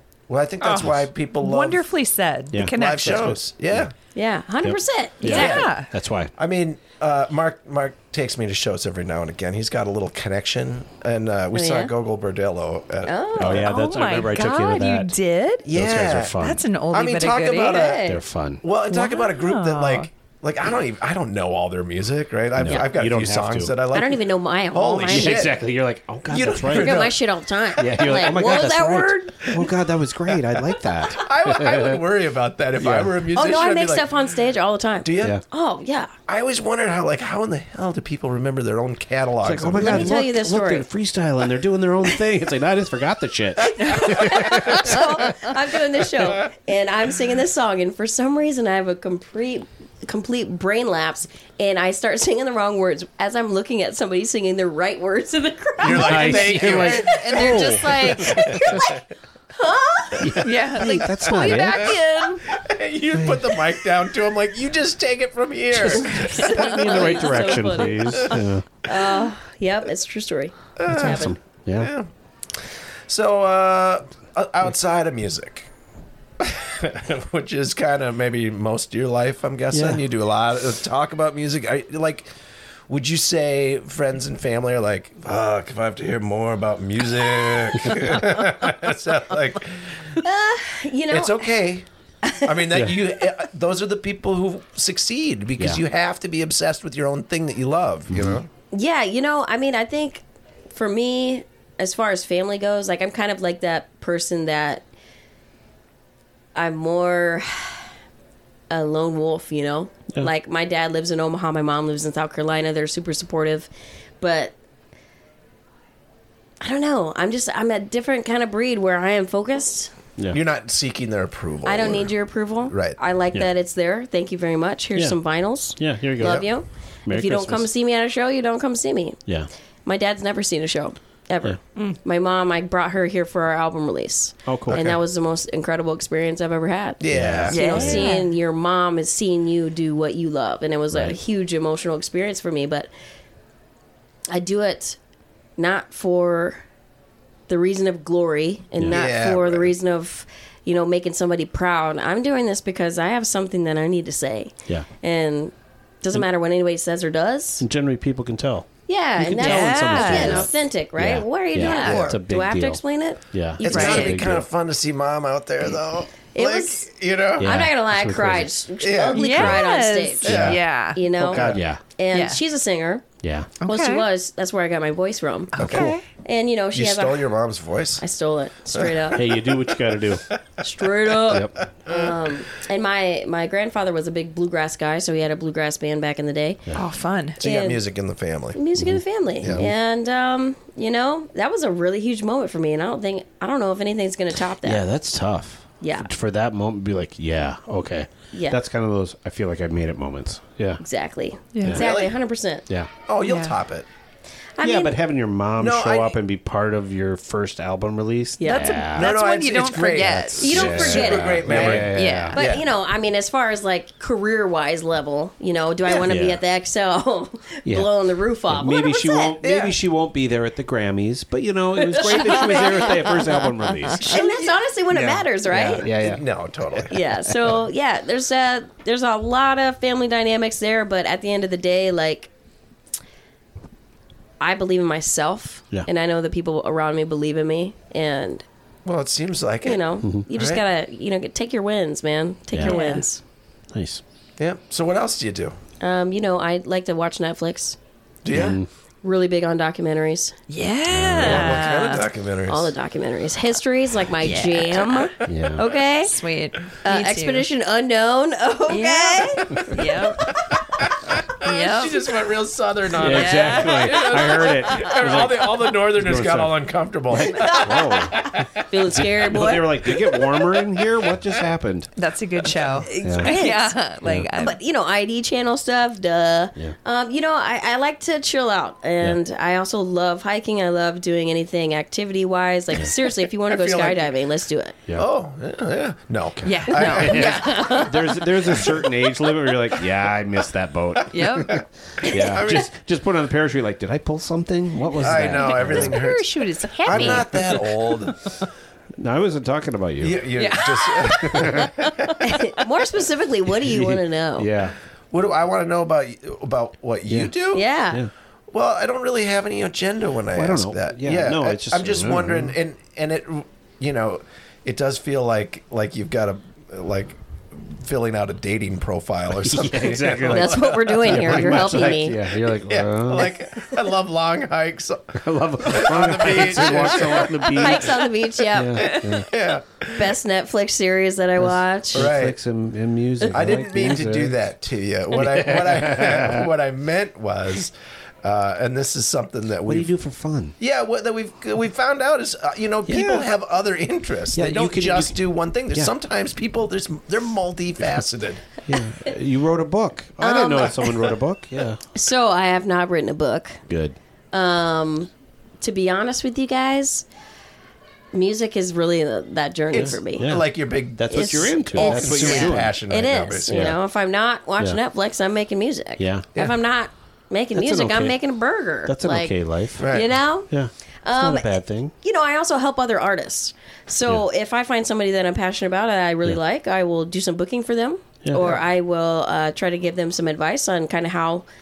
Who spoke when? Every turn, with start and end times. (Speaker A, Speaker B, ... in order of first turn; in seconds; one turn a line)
Speaker A: 0.3-1.9
Speaker B: 0.6-3.4
Speaker C: 2.5-3.9
Speaker A: 2.6-3.9
Speaker D: 4.1-5.6
Speaker C: 4.6-6.3
Speaker A: 5.2-5.7
Speaker B: 5.2-5.9
Speaker A: 6.3-13.7
Speaker D: 11.5-11.9
Speaker D: 13.0-13.7
Speaker C: 13.4-15.1
Speaker B: 13.5-15.7
Speaker A: 15.6-16.4
Speaker C: 15.7-16.6
Speaker B: 16.4-17.9
Speaker A: 16.9-25.6
Speaker D: 17.6-18.2
Speaker C: 18.0-18.6
Speaker B: 18.9-20.1
Speaker C: 22.6-23.7
Speaker D: 23.9-25.5
Speaker C: 25.1-27.1
Speaker A: 26.3-27.2
Speaker D: 26.7-29.6
Speaker C: 27.8-32.0
Speaker A: 27.9-28.5
Speaker A: 29.4-29.7
Speaker A: 30.3-34.1
Speaker C: 32.8-33.1
Speaker D: 33.3-36.1
Speaker A: 35.0-35.4
Speaker A: 36.3-40.1
Speaker C: 39.4-45.5
Speaker D: 39.8-40.9
Speaker D: 43.8-57.0
Speaker A: 55.8-59.0
Speaker C: 55.9-58.8
Speaker B: 56.3-58.8
Speaker D: 58.5-59.0
Speaker D: 59.5-62.4
Speaker C: 60.2-62.0
Speaker B: 60.4-62.2
Speaker A: 62.5-67.1
Speaker D: 66.1-71.3
Speaker C: 66.3-68.6
Speaker A: 70.8-72.1
Speaker C: 70.9-71.9
Speaker A: 72.6-75.7
Speaker A: 76.4-82.3
Speaker C: 79.7-80.0
Speaker A: 82.9-89.8
Speaker C: 87.8-88.1
Speaker D: 90.2-91.5
Speaker A: 91.1-98.5
Speaker C: 98.1-98.4
Speaker D: 98.7-104.8
Speaker D: 106.5-107.8
Speaker D: 108.7-114.5
Speaker D: 116.6-119.9
Speaker A: 120.3-122.1
Speaker D: 121.6-129.2
Speaker A: 122.7-123.0
Speaker C: 125.7-126.5
Speaker C: 127.0-127.7
Speaker D: 129.8-142.9
Speaker C: 134.4-134.8
Speaker A: 134.7-135.0
Speaker A: 137.0-138.0
Speaker C: 137.1-138.0
Speaker B: 137.5-138.3
Speaker D: 144.3-145.0
Speaker D: 145.6-146.6
Speaker D: 147.5-157.6
Speaker A: 148.9-149.7
Speaker C: 157.6-162.8
Speaker D: 158.9-164.2
Speaker B: 159.4-160.5
Speaker B: 161.6-162.0
Speaker C: 163.3-164.4
Speaker B: 163.6-164.2
Speaker A: 163.6-167.7
Speaker D: 166.3-166.9
Speaker C: 167.4-168.5
Speaker D: 167.4-173.0
Speaker A: 168.8-169.6
Speaker B: 169.1-171.5
Speaker A: 170.2-170.6
Speaker C: 170.3-170.6
Speaker A: 171.2-171.6
Speaker C: 171.4-171.8
Speaker B: 172.1-172.4
Speaker C: 173.2-173.5
Speaker B: 173.6-174.0
Speaker D: 173.6-177.3
Speaker B: 175.5-176.0
Speaker A: 175.6-175.9
Speaker A: 176.7-178.0
Speaker D: 178.0-179.3
Speaker A: 178.7-180.0
Speaker C: 179.1-180.3
Speaker D: 180.6-186.6
Speaker A: 181.1-182.1
Speaker C: 181.3-181.5
Speaker B: 186.7-187.4
Speaker A: 187.4-188.6
Speaker D: 187.4-187.8
Speaker D: 188.5-194.8
Speaker C: 188.8-189.7
Speaker A: 189.4-189.7
Speaker C: 194.6-200.8
Speaker D: 195.8-196.1
Speaker D: 198.3-198.6
Speaker D: 200.8-202.6
Speaker B: 201.5-201.8
Speaker A: 201.7-202.1
Speaker A: 203.1-203.9
Speaker B: 203.2-203.5
Speaker D: 204.6-205.0
Speaker C: 204.6-209.1
Speaker A: 205.6-206.2
Speaker D: 208.4-208.8
Speaker B: 208.4-210.7
Speaker A: 208.9-212.7
Speaker C: 210.3-212.4
Speaker D: 210.4-219.3
Speaker B: 211.5-212.4
Speaker C: 216.1-216.4
Speaker C: 218.5-224.2
Speaker A: 219.4-219.8
Speaker D: 221.8-223.3
Speaker D: 224.0-225.9
Speaker A: 224.0-227.0
Speaker C: 225.5-226.2
Speaker D: 226.9-232.3
Speaker D: 234.4-238.4
Speaker A: 238.8-240.6
Speaker D: 239.6-243.2
Speaker C: 242.5-242.8
Speaker B: 242.6-243.0
Speaker C: 243.7-244.0
Speaker A: 244.4-245.5
Speaker D: 245.8-247.8
Speaker A: 248.2-248.6
Speaker C: 248.3-248.7
Speaker D: 249.0-250.3
Speaker B: 250.5-252.0
Speaker C: 250.9-251.7
Speaker A: 251.2-252.7
Speaker D: 252.5-256.1
Speaker B: 254.2-257.5
Speaker C: 255.2-255.6
Speaker D: 256.8-259.9
Speaker B: 258.7-260.5
Speaker A: 261.0-268.4
Speaker B: 261.4-262.2
Speaker C: 262.9-266.5
Speaker B: 263.0-265.0
Speaker B: 267.3-267.6
Speaker D: 267.4-270.3
Speaker C: 267.4-268.3
Speaker C: 268.9-271.9
Speaker B: 272.0-274.6
Speaker D: 272.8-273.8
Speaker C: 273.0-273.3
Speaker C: 274.0-274.3
Speaker D: 274.4-284.7
Speaker A: 283.4-284.1
Speaker A: 284.9-287.8
Speaker B: 286.4-287.9
Speaker C: 286.5-296.0
Speaker D: 287.1-287.9
Speaker B: 291.1-291.6
Speaker A: 291.3-292.7
Speaker A: 295.0-298.2
Speaker B: 295.0-298.1
Speaker C: 296.9-297.3
Speaker C: 299.0-300.3
Speaker A: 300.0-302.1
Speaker B: 300.3-302.1
Speaker C: 301.2-301.7
Speaker D: 302.2-304.5
Speaker C: 303.6-304.7
Speaker A: 305.1-307.6
Speaker D: 307.5-308.0
Speaker A: 308.5-327.9
Speaker C: 310.3-312.5
Speaker C: 319.4-323.4
Speaker D: 320.2-322.2
Speaker C: 325.2-329.3
Speaker D: 327.5-329.0
Speaker A: 329.1-330.1
Speaker D: 329.9-332.1
Speaker C: 331.4-334.4
Speaker A: 331.9-332.4
Speaker A: 333.3-339.9
Speaker C: 335.1-336.5
Speaker C: 339.7-340.5
Speaker A: 340.6-348.4
Speaker C: 342.9-343.2
Speaker C: 344.3-345.2
Speaker C: 348.7-351.8
Speaker D: 350.2-351.1
Speaker D: 351.9-353.6
Speaker C: 353.7-353.9
Speaker D: 354.3-355.1
Speaker D: 355.6-357.1
Speaker D: 358.1-360.3
Speaker A: 359.7-363.8
Speaker C: 359.7-362.7
Speaker D: 361.1-370.5
Speaker C: 363.5-363.8
Speaker C: 366.0-366.3
Speaker C: 367.6-368.2
Speaker C: 368.9-370.0
Speaker A: 369.8-370.1
Speaker C: 370.5-371.9
Speaker D: 371.0-381.4
Speaker C: 378.2-378.6